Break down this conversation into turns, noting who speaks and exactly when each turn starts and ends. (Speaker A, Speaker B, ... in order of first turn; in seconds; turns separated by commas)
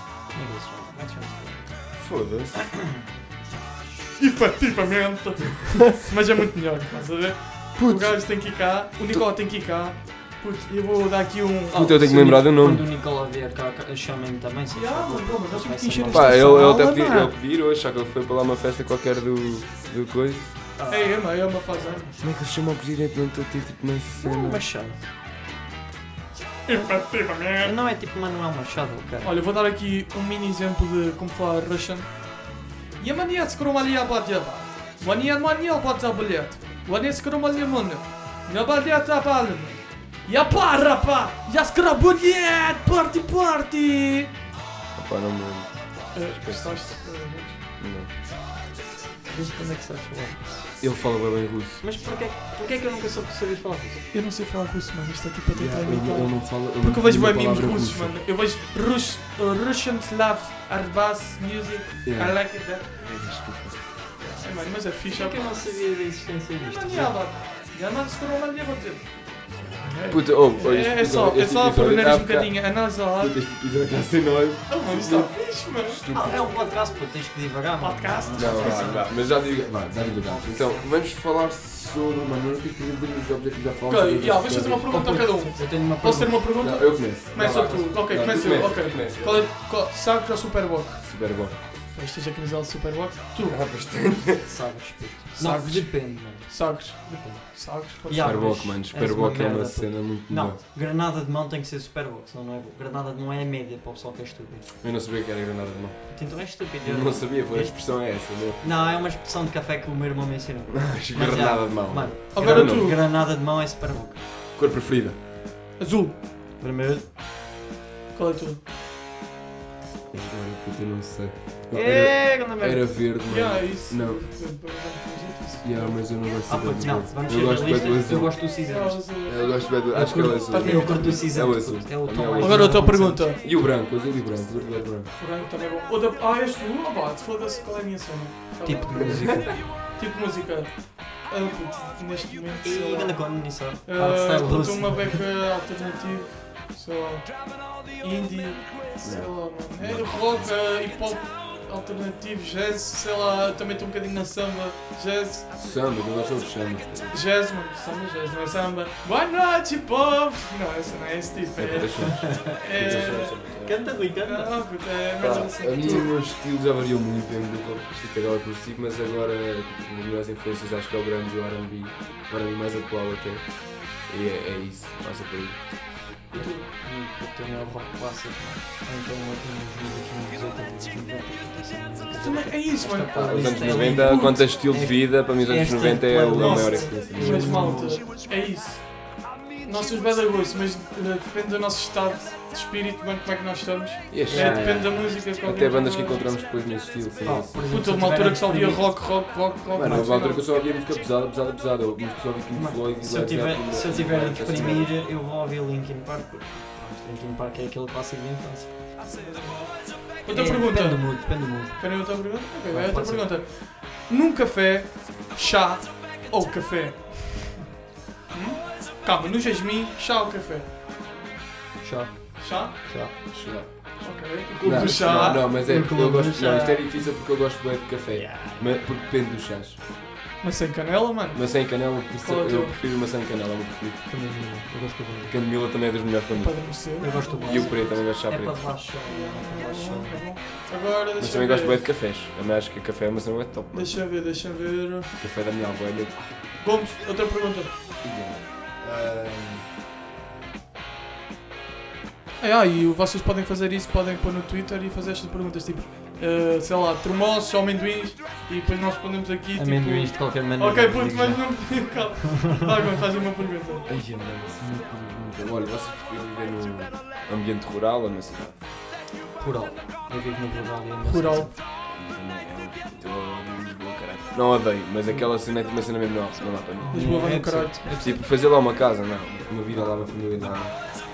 Speaker A: 0.3-3.6, Speaker B: 1.9-2.8, Speaker C: 4.2-12.1, Speaker B: 7.8-8.3, Speaker B: 11.7-12.8, Speaker A: 11.7-16.7, Speaker C: 14.7-17.3, Speaker B: 16.1-20.6, Speaker A: 20.8-22.1, Speaker C: 20.9-22.1, Speaker B: 22.2-24.6, Speaker A: 24.2-25.0, Speaker C: 26.6-27.7, Speaker A: 27.4-29.3, Speaker C: 29.2-32.4, Speaker C: 33.0-44.3, Speaker B: 44.9-46.9, Speaker C: 46.1-47.6, Speaker B: 47.8-48.1, Speaker A: 49.2-50.8, Speaker B: 50.8-51.8, Speaker A: 51.8-54.0, Speaker C: 54.1-63.0, Speaker B: 55.5-58.2, Speaker B: 62.0-64.0, Speaker C: 64.2-65.9, Speaker A: 65.0-67.2, Speaker C: 66.6-73.5, Speaker B: 70.1-76.5, Speaker C: 74.7-76.3, Speaker A: 76.1-80.9, Speaker C: 77.8-79.1, Speaker B: 78.3-84.9, Speaker C: 83.9-93.8, Speaker A: 84.9-86.4, Speaker B: 86.6-89.5, Speaker A: 87.3-88.0, Speaker B: 91.0-91.6, Speaker B: 93.5-94.5, Speaker A: 94.4-104.7, Speaker C: 95.4-98.7, Speaker B: 98.2-100.6, Speaker B: 104.8-108.8, Speaker A: 106.1-114.2, Speaker B: 110.7-113.0, Speaker C: 112.3-113.0, Speaker B: 114.5-115.2, Speaker C: 115.8-116.2, Speaker A: 116.6-117.1, Speaker C: 118.1-118.6, Speaker B: 120.1-124.2, Speaker A: 121.7-122.9, Speaker C: 123.2-126.0, Speaker B: 125.6-128.4, Speaker A: 126.5-129.1, Speaker C: 128.6-131.7, Speaker B: 129.2-135.1, Speaker A: 129.9-133.3, Speaker C: 132.4-133.5, Speaker C: 135.1-155.6, Speaker A: 138.6-139.6, Speaker A: 142.6-145.2, Speaker B: 149.0-150.5, Speaker B: 155.6-157.2, Speaker C: 157.1-163.6, Speaker B: 161.6-164.0, Speaker A: 162.2-164.6, Speaker C: 164.2-166.1, Speaker B: 165.2-176.1, Speaker C: 176.3-176.7, Speaker A: 176.3-188.0, Speaker C: 182.2-184.5, Speaker B: 183.1-187.8, Speaker C: 186.3-196.4, Speaker B: 194.1-197.6, Speaker A: 194.3-195.0, Speaker A: 197.2-199.2, Speaker C: 197.7-200.5, Speaker B: 199.7-204.9, Speaker A: 202.5-208.8, Speaker C: 209.0-217.6, Speaker A: 210.3-213.3, Speaker C: 218.3-220.7, Speaker A: 221.8-223.1, Speaker C: 222.4-223.3, Speaker B: 223.3-229.8, Speaker C: 224.0-225.5, Speaker A: 225.5-226.8, Speaker A: 228.1-228.8, Speaker C: 230.4-232.8, Speaker B: 231.3-234.1, Speaker A: 234.1-235.4, Speaker B: 235.3-238.6, Speaker C: 236.3-238.0, Speaker A: 237.0-240.2, Speaker C: 239.0-241.8, Speaker B: 241.2-243.9, Speaker C: 243.7-245.1, Speaker B: 245.2-246.5, Speaker C: 246.6-247.8, Speaker B: 248.0-249.7, Speaker C: 252.4-263.9, Speaker A: 259.5-262.5, Speaker B: 263.9-268.6, Speaker A: 269.4-271.5, Speaker C: 271.0-271.5, Speaker B: 271.8-280.9, Speaker A: 276.8-278.2, Speaker C: 276.9-278.0